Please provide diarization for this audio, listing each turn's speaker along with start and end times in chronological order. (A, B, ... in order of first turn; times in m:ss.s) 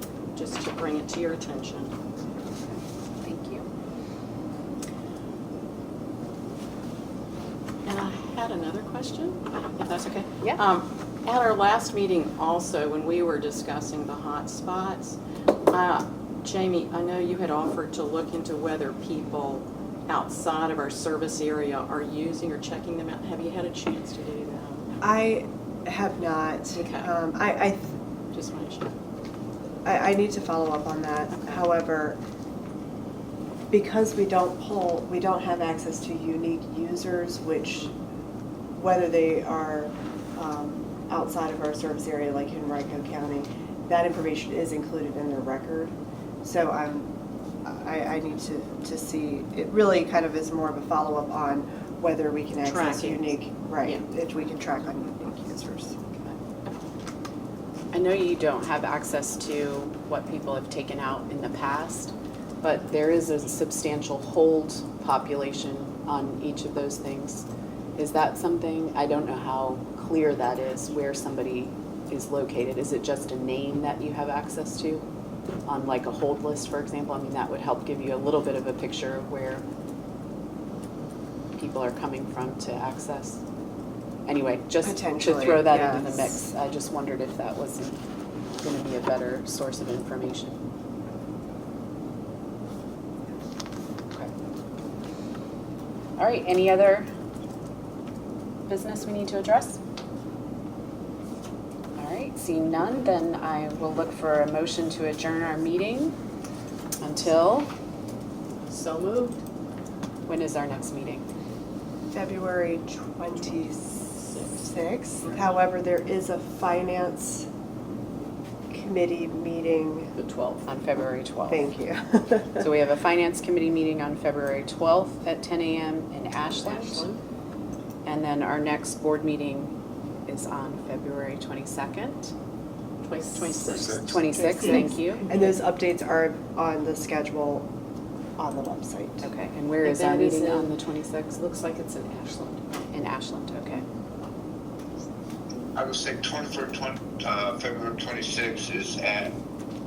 0:00.4-0:01.9 A
0:02.7-0:03.7 B
0:07.8-0:15.2 A
0:15.7-0:25.0 A
0:25.0-0:27.9 C
0:26.7-0:27.1 A
0:28.3-0:28.9 A
0:29.8-0:32.2 C
0:31.3-0:31.6 A
0:33.7-0:37.9 C
0:38.7-0:47.1 C
0:47.6-0:56.0 C
0:52.6-0:53.3 A
0:57.9-1:15.0 B
1:15.7-1:19.6 B
1:21.6-1:23.4 B
1:24.2-1:28.0 B
1:24.8-1:26.4 C
1:28.6-1:30.6 B
1:36.2-1:37.1 B
1:38.7-1:39.8 B
1:42.0-1:46.1 B
1:47.0-1:47.7 B
1:48.7-1:49.4 A
1:50.3-1:51.2 B
1:52.1-1:57.5 C
1:54.2-1:54.6 A
1:58.7-2:00.1 C
2:00.2-2:00.7 A
2:00.7-2:01.7 B
2:01.5-2:02.6 C
2:02.6-2:07.0 B
2:06.6-2:07.2 A
2:08.0-2:09.7 B
2:10.3-2:12.3 B
2:13.0-2:15.4 A
2:13.5-2:15.3 B
2:15.3-2:17.7 C
2:18.4-2:19.3 C
2:19.2-2:20.7 A
2:19.4-2:21.5 B
2:21.4-2:22.6 A
2:22.9-2:23.8 B
2:25.7-2:29.3 D